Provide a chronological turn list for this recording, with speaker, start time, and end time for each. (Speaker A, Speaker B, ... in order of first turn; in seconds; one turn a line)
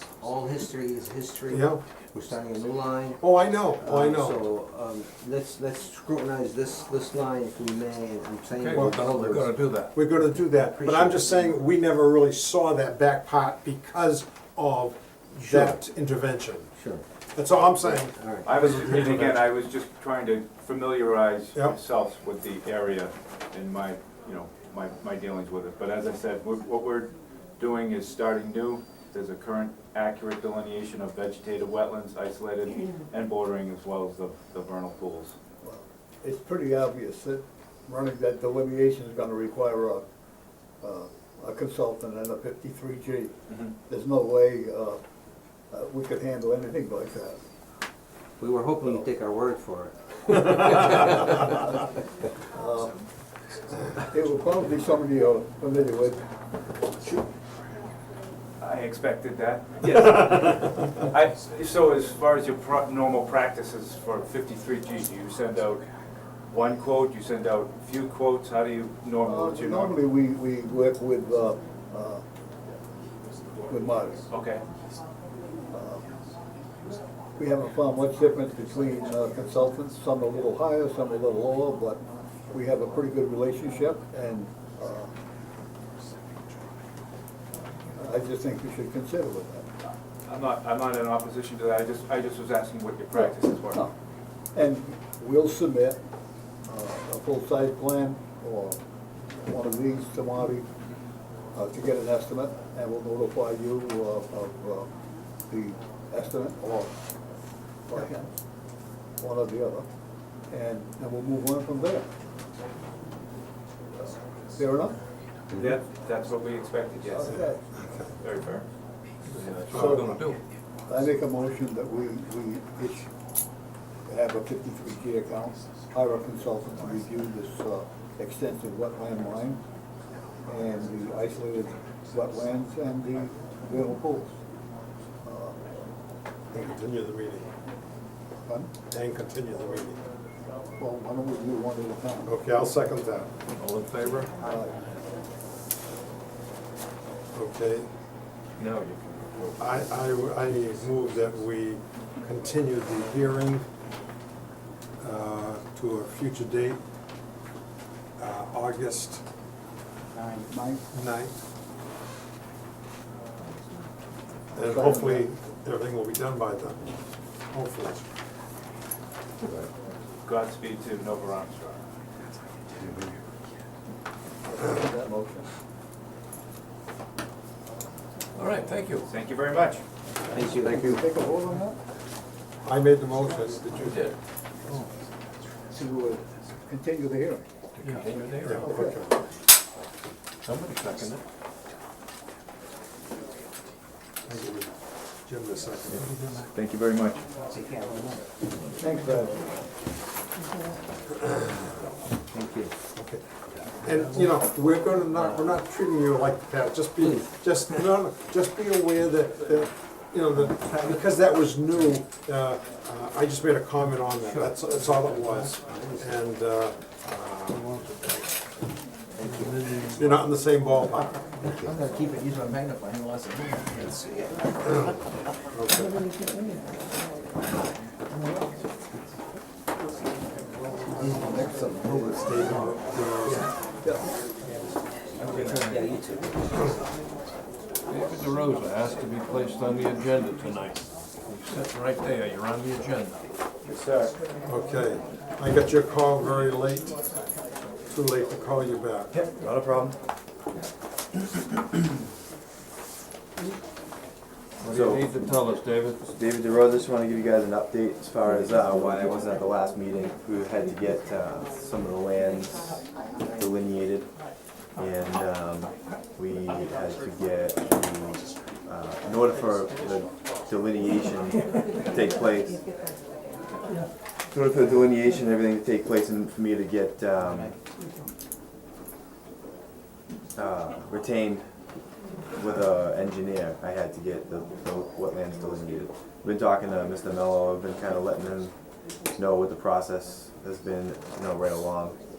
Speaker A: 0.2-3.2
Speaker B: 1.5-1.8
Speaker B: 3.2-4.4
Speaker A: 3.8-9.6
Speaker C: 8.6-9.9
Speaker B: 9.9-16.7
Speaker A: 10.8-11.2
Speaker A: 16.8-17.0
Speaker B: 17.4-19.5
Speaker A: 18.1-18.5
Speaker D: 18.4-35.4
Speaker E: 35.6-40.0
Speaker E: 40.8-43.3
Speaker E: 43.9-45.0
Speaker E: 45.7-47.4
Speaker A: 48.4-51.4
Speaker E: 52.5-53.0
Speaker E: 54.0-56.2
Speaker D: 58.6-65.8
Speaker D: 66.5-70.0
Speaker E: 69.2-72.2
Speaker E: 73.7-74.2
Speaker D: 74.3-74.6
Speaker E: 75.7-76.0
Speaker E: 77.4-85.1
Speaker E: 88.0-89.7
Speaker D: 90.3-93.9
Speaker E: 93.1-93.9
Speaker E: 94.5-96.0
Speaker E: 96.7-98.8
Speaker E: 99.4-100.7
Speaker E: 101.5-104.9
Speaker E: 105.5-106.9
Speaker E: 107.9-108.3
Speaker E: 109.2-109.9
Speaker E: 110.5-112.1
Speaker E: 114.5-115.0
Speaker D: 115.5-117.5
Speaker E: 117.2-117.7
Speaker D: 118.2-118.7
Speaker C: 119.3-120.4
Speaker B: 119.7-120.0
Speaker E: 119.7-120.3
Speaker E: 120.9-123.1
Speaker E: 124.1-129.6
Speaker E: 130.5-134.3
Speaker E: 135.2-135.6
Speaker B: 136.5-137.5
Speaker E: 138.5-138.7
Speaker B: 138.9-140.0
Speaker E: 140.8-142.3
Speaker B: 142.3-143.3
Speaker C: 143.6-144.3
Speaker E: 144.4-144.8
Speaker B: 147.3-147.9
Speaker C: 148.6-149.8
Speaker B: 149.6-153.7
Speaker B: 155.0-156.8
Speaker B: 158.2-159.2
Speaker E: 160.5-160.8
Speaker B: 160.9-161.4
Speaker B: 164.6-167.0
Speaker E: 164.6-165.3
Speaker B: 167.5-168.1
Speaker D: 170.2-171.8
Speaker E: 174.5-175.5
Speaker C: 178.4-179.1
Speaker D: 179.0-179.8
Speaker A: 180.3-181.0
Speaker E: 180.6-181.8
Speaker B: 182.7-184.1
Speaker C: 183.8-184.2
Speaker E: 185.7-187.4
Speaker C: 187.8-188.8
Speaker B: 188.4-189.2
Speaker E: 188.6-189.0
Speaker C: 190.4-191.2
Speaker B: 194.3-194.7
Speaker B: 195.2-196.1
Speaker D: 195.9-197.2
Speaker E: 198.8-199.4
Speaker A: 202.3-202.7
Speaker B: 203.0-203.2
Speaker B: 203.8-217.8
Speaker A: 207.0-207.3
Speaker A: 219.2-219.6
Speaker C: 219.7-220.0
Speaker B: 220.0-221.7
Speaker B: 225.5-226.0
Speaker A: 231.0-232.2
Speaker B: 232.1-233.5
Speaker A: 235.2-236.6
Speaker C: 237.9-243.2
Speaker D: 243.7-244.2
Speaker B: 244.4-246.9
Speaker B: 247.9-249.1
Speaker F: 249.1-250.0
Speaker C: 254.6-256.0
Speaker F: 254.6-255.3
Speaker F: 256.1-264.1
Speaker F: 264.8-272.6
Speaker F: 274.3-277.6
Speaker F: 280.4-281.4
Speaker F: 282.4-288.5
Speaker F: 289.1-292.0